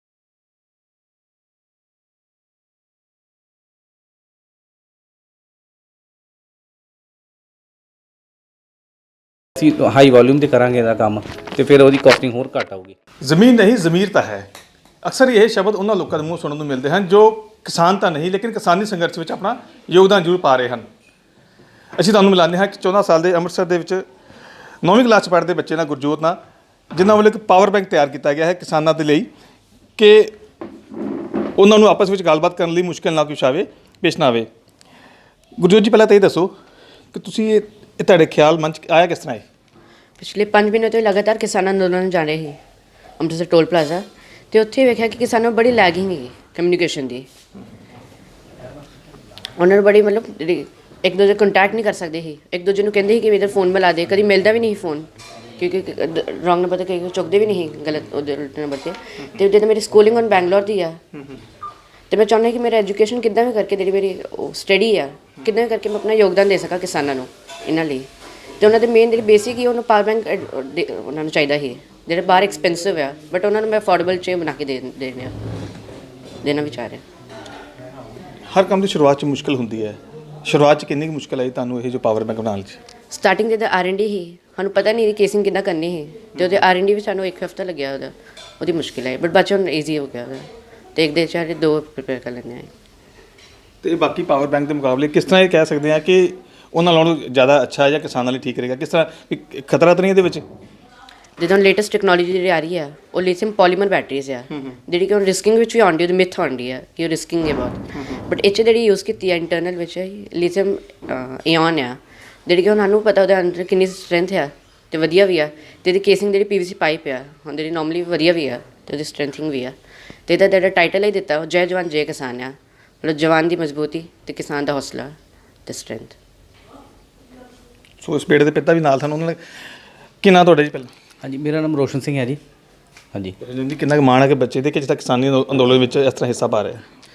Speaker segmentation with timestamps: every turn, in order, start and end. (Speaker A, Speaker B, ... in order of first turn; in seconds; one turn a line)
Speaker A: 9.6-13.0
Speaker B: 13.2-14.5
Speaker B: 15.0-20.9
Speaker B: 22.0-24.1
Speaker B: 24.8-26.4
Speaker B: 26.9-29.3
Speaker B: 30.0-30.3
Speaker B: 31.6-34.5
Speaker B: 35.6-36.5
Speaker B: 37.1-39.4
Speaker C: 40.2-42.6
Speaker C: 43.2-47.2
Speaker C: 49.6-55.1
Speaker C: 55.6-61.0
Speaker C: 62.1-68.1
Speaker C: 68.6-75.4
Speaker C: 76.4-77.0
Speaker B: 78.5-82.8
Speaker C: 83.1-92.7
Speaker B: 93.8-100.4
Speaker C: 101.4-119.8
Speaker C: 120.3-125.2
Speaker C: 125.7-126.2
Speaker B: 128.0-129.4
Speaker B: 130.2-130.9
Speaker A: 131.2-132.4
Speaker B: 133.4-136.8